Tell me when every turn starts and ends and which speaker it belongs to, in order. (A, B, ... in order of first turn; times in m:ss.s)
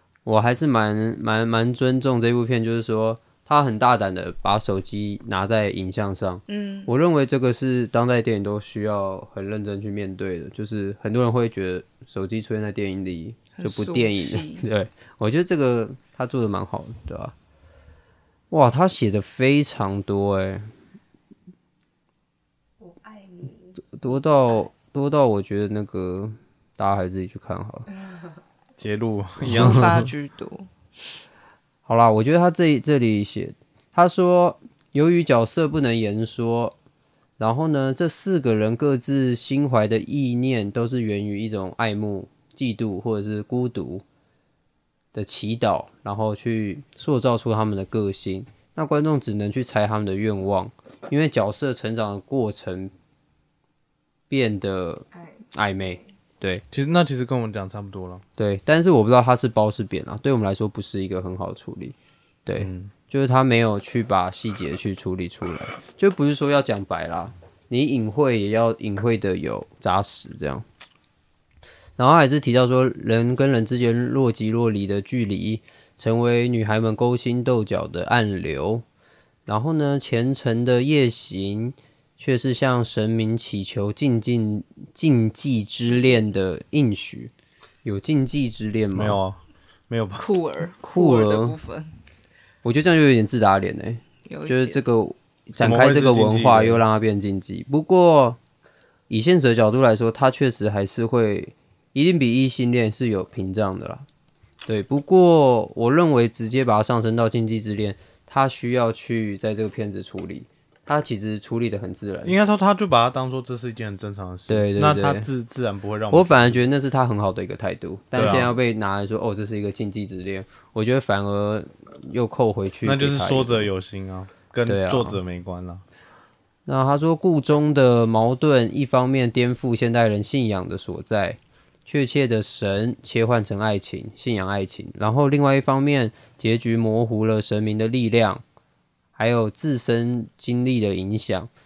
0:00.2-0:17.3 A
0:06.5-0:06.9 B
0:13.6-0:14.7 B
0:18.5-0:20.7 A
0:22.8-0:23.7 B
0:24.0-0:27.9 A
0:28.8-0:30.1 C
0:29.4-0:29.9 A
0:29.4-0:30.7 B
0:31.9-0:36.8 A
0:37.4-0:44.0 A
0:45.1-0:52.9 A
0:54.3-0:56.6 A
0:56.7-0:58.2 C
0:58.4-1:10.6 A
1:02.6-1:02.9 C
1:12.0-1:18.8 A
1:19.5-1:27.3 A
1:27.8-1:29.2 A
1:29.0-1:30.2 C
1:30.2-1:31.9 B
1:30.8-1:31.6 A
1:32.6-1:38.4 A
1:34.3-1:34.8 B
1:35.6-1:36.8 C
1:39.1-1:44.0 A
1:44.7-1:52.4 A
1:52.2-1:56.6 C
1:54.5-1:55.3 A
1:56.1-2:03.7 A
1:58.2-1:58.5 C
2:02.8-2:05.8 C
2:04.7-2:05.2 A
2:06.7-2:18.4 A
2:19.2-2:21.5 A